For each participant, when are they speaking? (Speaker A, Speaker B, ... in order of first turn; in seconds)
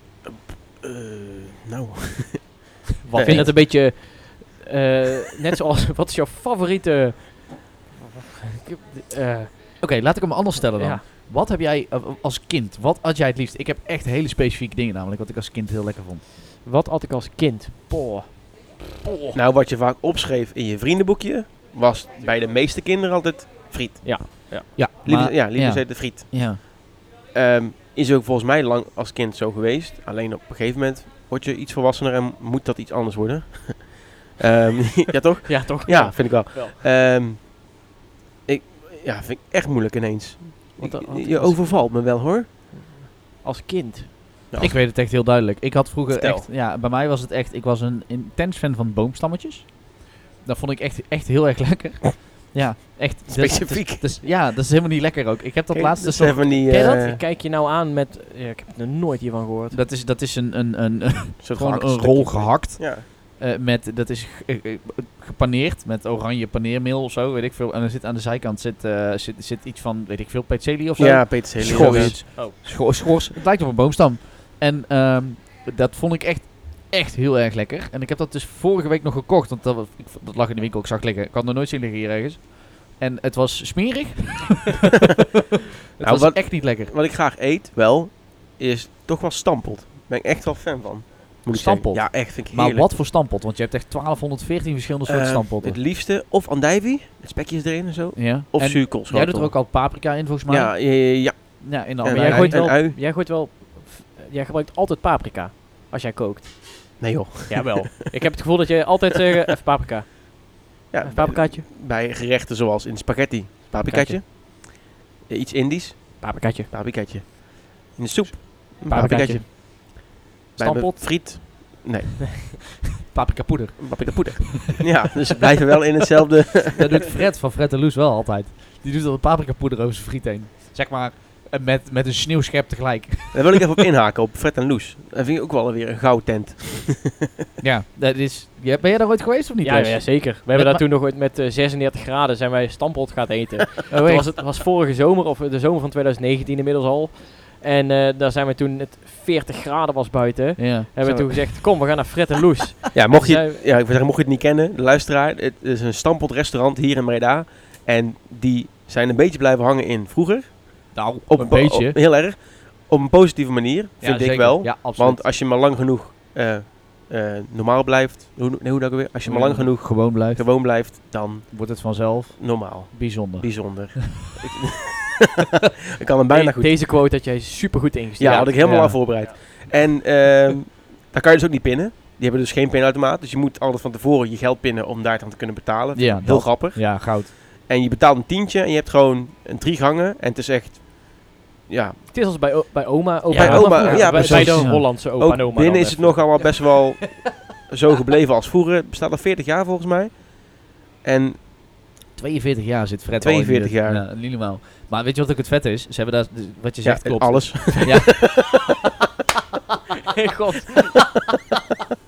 Speaker A: 0.3-3.5, 19.3-37.6, 38.5-42.5, 44.5-44.8, 46.1-46.5, 53.3-54.1, 55.7-57.2, 61.4-63.0, 71.0-72.2, 86.0-92.9, 95.1-99.9, 100.5-103.0, 107.0-107.9, 110.9-120.0, 120.6-122.6, 123.8-126.8, 133.3-137.2, 152.9-175.3, 176.0-176.9, 178.2-192.1, 193.3-201.4, 203.2-204.0, 206.8-208.6
Speaker B: 3.0-3.5, 9.8-16.2, 24.7-26.6, 44.6-49.8, 50.4-57.0, 59.7-84.9, 86.0-86.9, 91.5-95.8, 98.2-102.7, 123.1-124.9, 126.7-133.6, 137.6-140.8, 143.9-144.3, 150.6-151.9, 160.9-162.0, 164.0-165.3, 169.2-170.5, 171.5-174.1, 178.3-179.2, 185.9-187.3, 193.3-194.9, 202.1-208.6
Speaker C: 3.2-7.9, 8.6-9.8, 10.8-11.0, 16.6-19.4, 24.0-24.7, 35.5-36.8, 40.8-42.0, 42.7-44.1, 56.7-59.8, 71.6-72.5, 102.1-111.7, 113.7-114.2, 116.2-116.7, 118.8-119.5, 120.6-121.0, 139.6-153.6, 176.3-179.3, 192.1-196.4, 210.1-210.9